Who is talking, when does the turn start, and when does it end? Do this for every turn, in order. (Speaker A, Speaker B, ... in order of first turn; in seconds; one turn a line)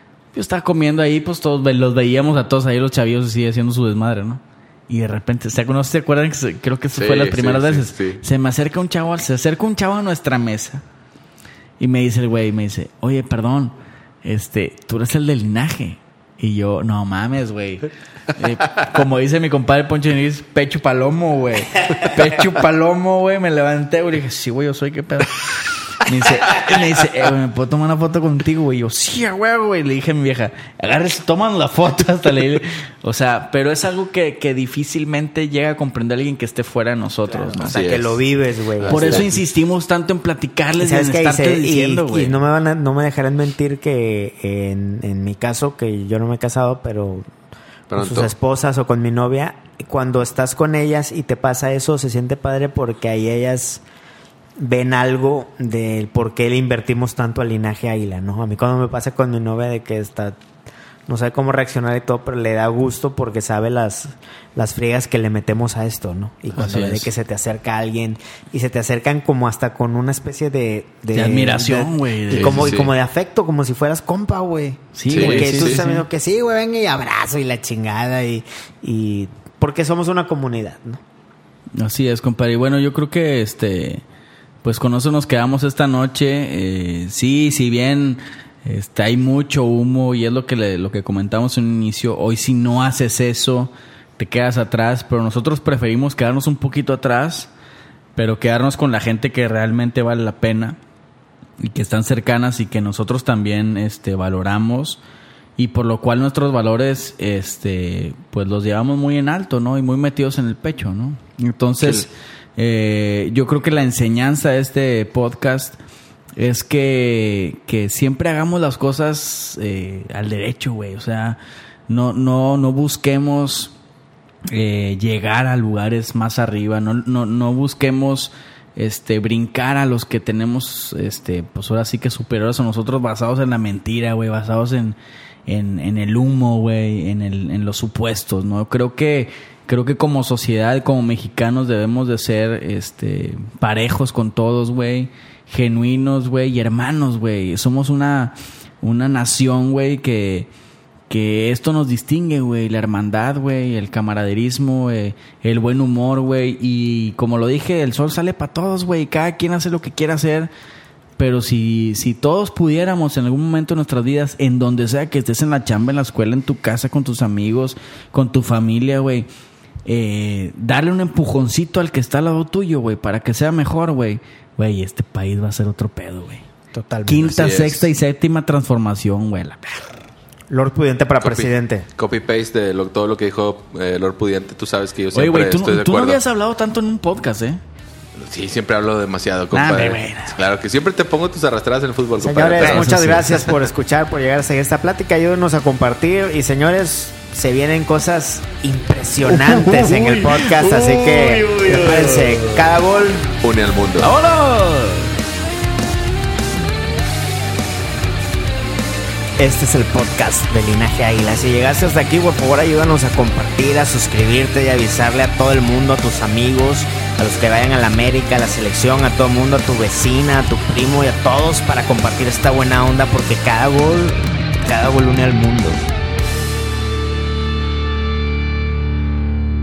Speaker A: 0.3-10.8
Speaker B: 7.0-8.2
Speaker A: 11.8-37.8
Speaker C: 37.3-39.3
Speaker B: 37.6-38.2
Speaker B: 38.8-39.3
Speaker A: 38.9-42.4
Speaker C: 40.8-47.2
Speaker B: 47.9-48.3
Speaker C: 48.0-53.8
Speaker C: 54.6-60.4
Speaker C: 61.1-81.0
Speaker A: 66.5-67.1
Speaker A: 71.1-72.7
Speaker B: 72.3-72.9
Speaker A: 74.9-76.0
Speaker B: 75.1-75.8
Speaker A: 81.8-84.0
Speaker A: 84.6-97.5
Speaker A: 98.2-100.8
Speaker A: 101.6-105.0
Speaker A: 105.6-115.8
Speaker A: 116.4-123.7
Speaker A: 124.5-150.5
Speaker A: 151.1-160.5
Speaker A: 161.2-169.3
Speaker A: 169.8-176.4
Speaker C: 176.7-177.6
Speaker A: 177.1-179.9
Speaker B: 177.3-177.9
Speaker C: 180.5-181.9
Speaker B: 181.2-186.2
Speaker A: 185.1-187.6
Speaker B: 188.2-193.0
Speaker A: 189.5-190.4
Speaker C: 192.2-203.4
Speaker A: 192.6-193.5
Speaker A: 199.3-202.6
Speaker B: 203.4-204.1
Speaker A: 204.0-205.1
Speaker C: 209.4-225.9